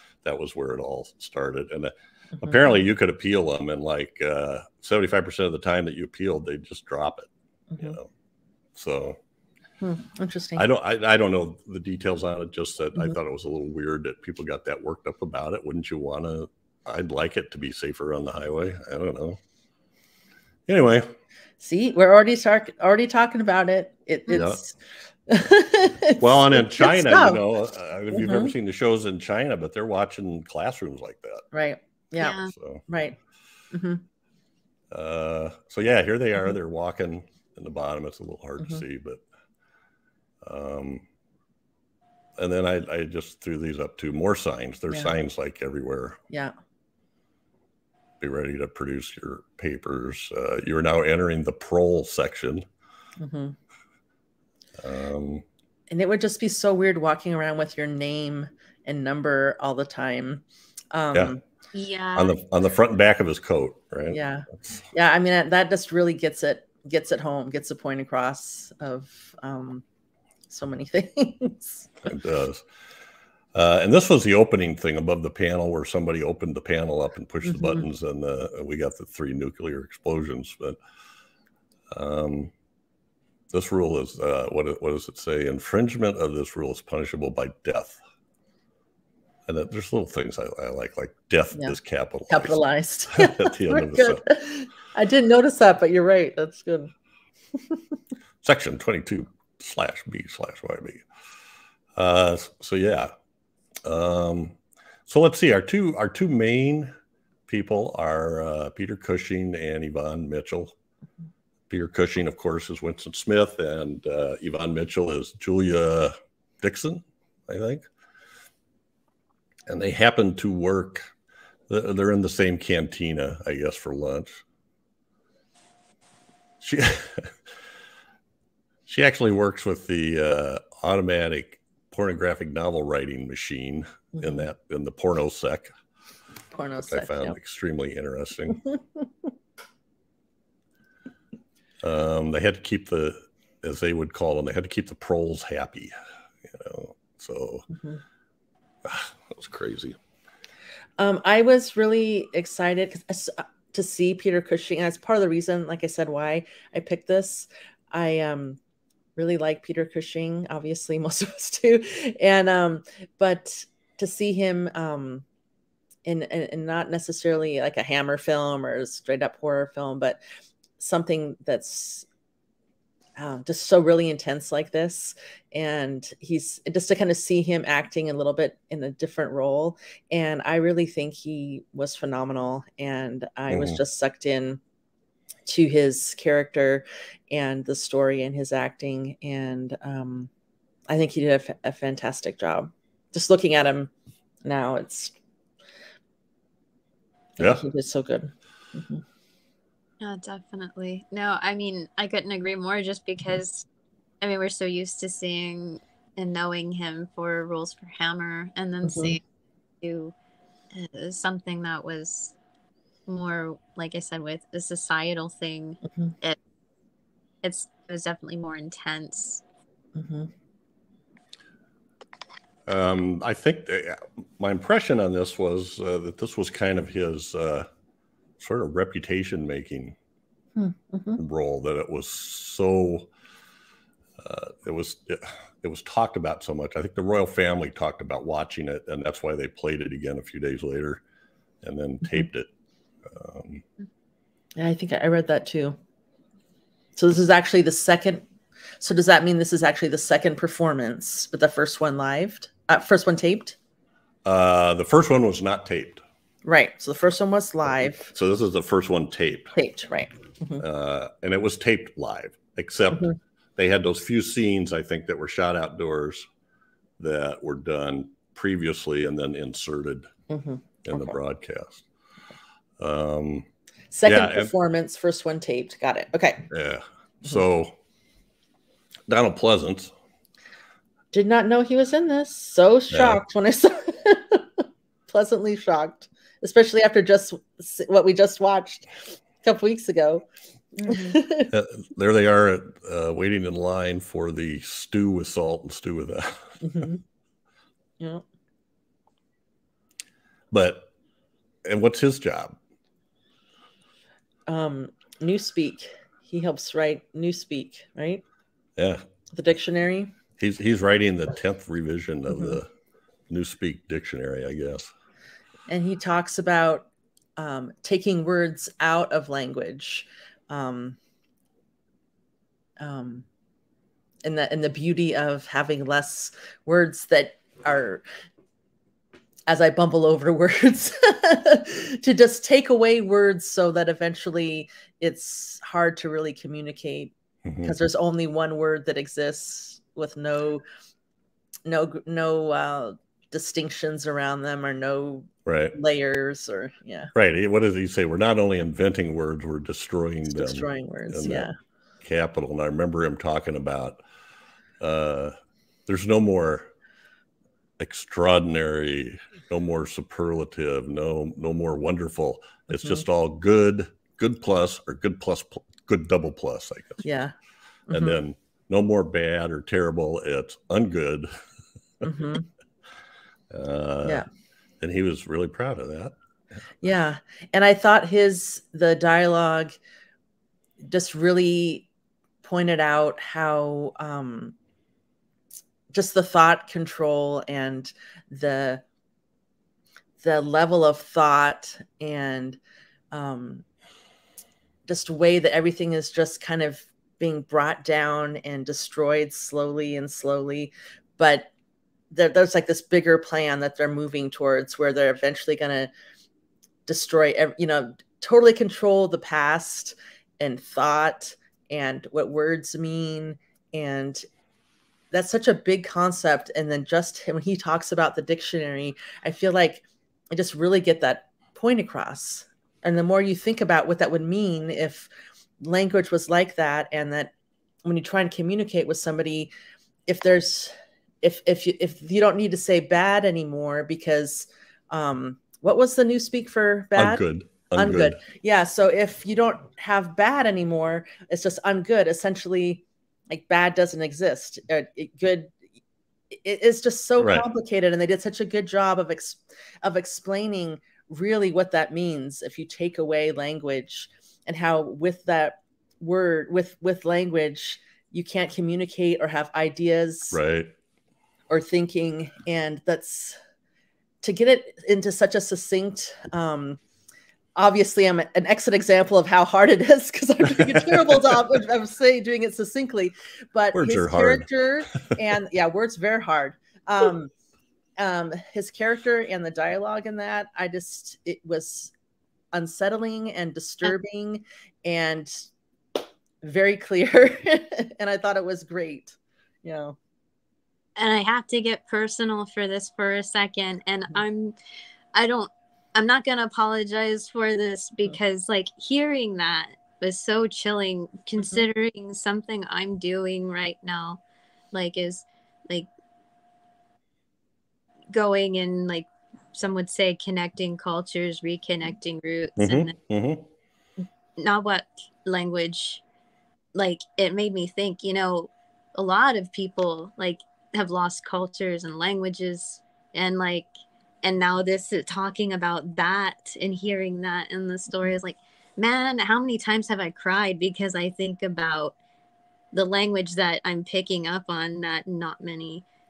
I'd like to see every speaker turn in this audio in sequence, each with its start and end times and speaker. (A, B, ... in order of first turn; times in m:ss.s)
0:00.2-0:08.1 A
0:02.4-0:02.8 B
0:08.8-0:09.2 A
0:09.8-0:10.6 B
0:10.6-0:19.4 A
0:20.7-0:21.1 A
0:21.6-0:27.4 B
0:24.3-0:24.6 A
0:26.2-0:31.4 A
0:28.1-0:28.5 B
0:31.5-0:33.2 B
0:32.2-0:32.5 C
0:32.5-0:32.8 A
0:33.7-0:34.0 B
0:34.9-0:39.2 A
0:40.4-0:41.0 A
0:42.4-0:46.2 A
0:48.2-0:52.7 A
0:53.2-0:53.6 B
0:54.8-0:55.4 A
0:55.9-1:01.4 B
1:01.7-1:02.4 C
1:02.2-1:04.8 A
1:04.1-1:09.8 B
1:10.5-1:11.9 B
1:12.0-1:12.6 A
1:13.5-1:20.8 A
1:17.4-1:17.9 B
1:21.9-1:22.5 A
1:23.5-1:28.0 A
1:29.5-1:34.2 A
1:32.3-1:36.9 B
1:38.4-1:41.0 A
1:42.0-1:43.1 A
1:43.8-1:44.6 A
1:45.1-1:46.9 A
1:47.5-1:50.7 A
1:51.7-1:57.9 A
1:59.7-2:01.1 A
2:01.7-2:04.4 A
2:06.6-2:07.4 A
2:08.9-2:15.7 A
2:14.2-2:14.5 B
2:16.5-2:17.4 B
2:16.9-2:18.6 A
2:18.7-2:19.0 B
2:21.8-2:25.9 A
2:26.5-2:27.7 A
2:27.7-2:28.0 B
2:28.8-2:30.0 A
2:31.0-2:38.6 B
2:39.2-2:45.2 B
2:46.0-2:50.2 B
2:50.8-2:52.1 B
2:53.2-3:04.6 B
3:03.5-3:03.8 A
3:05.5-3:10.3 B
3:10.9-3:13.9 B
3:14.4-3:15.1 B
3:17.4-3:19.0 B
3:17.4-3:17.6 A
3:20.0-3:23.7 C
3:24.2-3:29.2 C
3:28.8-3:29.2 B
3:29.8-3:30.1 C
3:30.7-3:32.3 C
3:33.1-3:36.4 C
3:37.4-3:39.4 C
3:40.0-3:40.3 B
3:42.7-3:47.7 A
3:48.4-3:50.0 A
3:50.6-3:51.2 B
3:51.2-3:53.1 A
3:54.2-4:01.0 A
4:01.6-4:02.5 A
4:03.1-4:03.6 A
4:04.6-4:05.8 B
4:07.0-4:08.2 B
4:08.8-4:13.6 B
4:14.2-4:16.0 A
4:16.4-4:18.1 B
4:18.0-4:19.5 A
4:19.6-4:20.6 B
4:20.6-4:26.3 A
4:27.0-4:30.1 A
4:30.3-4:31.1 B
4:30.8-4:31.8 A
4:32.8-4:33.5 A
4:33.9-4:36.5 B
4:34.0-4:34.5 A
4:36.5-4:37.8 A
4:39.1-4:39.9 A
4:41.1-4:48.9 B
4:42.9-4:43.2 A
4:49.4-4:51.5 B
4:50.9-4:51.1 C
4:51.5-4:56.8 A
4:56.6-4:57.0 B
4:58.0-4:58.2 B
5:00.5-5:00.9 A
5:01.6-5:02.6 A
5:04.5-5:08.2 B
5:08.8-5:09.0 A
5:09.3-5:10.2 B
5:10.4-5:12.7 A
5:12.3-5:12.6 B
5:13.3-5:14.9 A
5:15.7-5:21.0 B
5:22.8-5:23.3 B
5:24.2-5:28.0 B
5:29.5-5:40.6 B
5:37.4-5:37.8 A
5:41.6-5:47.1 B
5:45.5-5:45.8 A
5:47.1-5:51.5 A
5:50.3-5:51.5 B
5:52.0-5:54.0 A
5:54.8-5:55.4 A
5:55.9-5:56.7 A
5:57.8-6:07.0 A
6:02.7-6:03.0 B
6:07.0-6:07.3 B
6:07.9-6:08.2 B
6:07.9-6:11.3 A
6:12.0-6:12.5 B
6:13.5-6:14.2 A
6:14.8-6:16.2 A
6:16.8-6:19.8 B
6:20.8-6:21.9 B
6:22.4-6:24.6 B
6:25.9-6:28.8 B
6:30.2-6:32.6 B
6:33.1-6:33.6 B
6:34.9-6:41.5 B
6:42.1-6:45.9 B
6:46.9-6:54.2 B
6:55.1-7:07.3 B
7:07.8-7:09.5 B
7:10.1-7:17.2 B
7:17.0-7:18.2 A
7:17.8-7:25.6 B
7:26.3-7:40.4 B
7:27.2-7:27.5 A
7:40.3-7:40.7 A
7:41.5-7:43.4 B
7:44.2-7:46.8 B
7:47.6-7:57.3 B
7:50.6-7:51.1 A
7:53.7-7:54.5 A
7:58.0-8:01.9 B
8:02.5-8:05.5 B
8:06.4-8:10.0 B
8:11.0-8:14.6 C
8:15.1-8:24.2 C
8:24.7-8:25.9 C
8:28.1-8:32.9 C
8:32.6-8:33.4 A
8:34.4-8:36.0 C
8:36.7-8:43.7 C
8:44.2-8:52.0 C
8:52.7-8:55.8 C